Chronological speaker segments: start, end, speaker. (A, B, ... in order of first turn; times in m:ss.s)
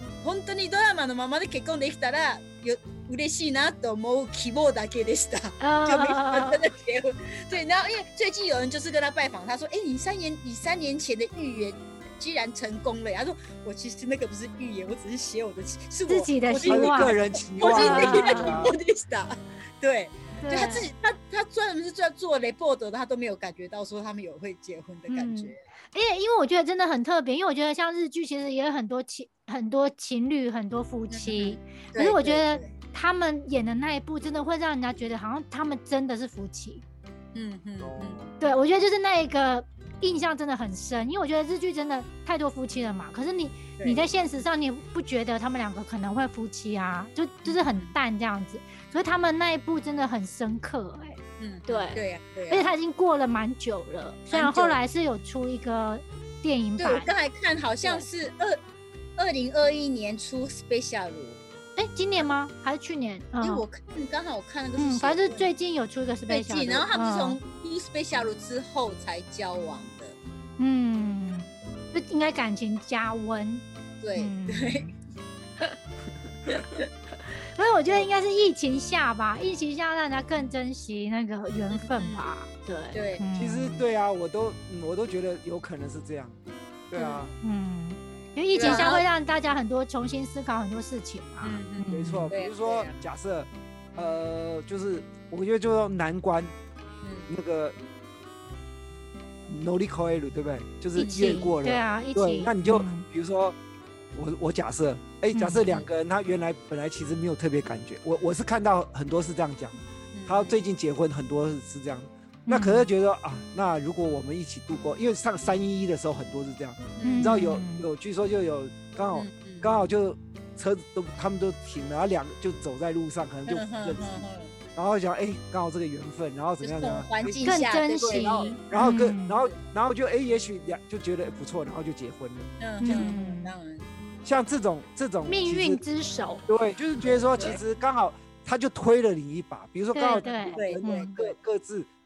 0:00.2-0:25.6 A
0:05.6-0:06.6 B
0:16.1-0:18.7 B
0:16.6-0:18.7 C
0:20.4-0:20.9 B
0:25.1-0:36.8 B
0:31.1-0:32.7 A
0:37.3-0:38.3 A
0:37.8-0:38.2 C
0:38.4-0:57.1 B
0:43.8-0:44.0 A
0:47.4-0:48.0 A
0:51.4-0:52.7 A
0:54.3-0:54.8 A
0:56.8-0:58.6 A
0:59.2-1:01.4 A
1:01.8-1:03.6 B
1:03.4-1:05.5 A
1:04.8-1:07.4 B
1:06.3-1:10.2 A
1:10.6-1:13.6 B
1:14.0-1:14.9 A
1:14.2-1:14.9 B
1:17.4-1:23.8 B
1:21.7-1:22.3 A
1:22.9-1:23.2 A
1:23.3-1:27.3 C
1:26.9-1:32.3 B
1:28.5-1:29.1 A
1:28.6-1:28.9 C
1:31.4-1:33.0 A
1:31.9-1:36.5 C
1:37.0-1:37.3 A
1:37.3-1:37.8 C
1:39.5-1:43.6 C
1:41.0-1:43.1 B
1:41.0-1:41.5 A
1:44.1-2:13.1 C
1:45.3-1:45.7 B
1:50.1-1:50.5 A
1:52.5-1:52.9 B
1:57.0-1:57.3 A
1:57.0-1:57.9 B
1:59.1-1:59.8 A
2:03.5-2:04.5 A
2:06.6-2:08.6 A
2:07.4-2:09.4 B
2:12.6-2:13.9 A
2:12.8-2:13.5 B
2:14.2-2:15.8 C
2:15.3-2:16.5 B
2:16.5-2:21.9 C
2:17.0-2:17.6 A
2:19.9-2:21.2 B
2:20.5-2:21.3 A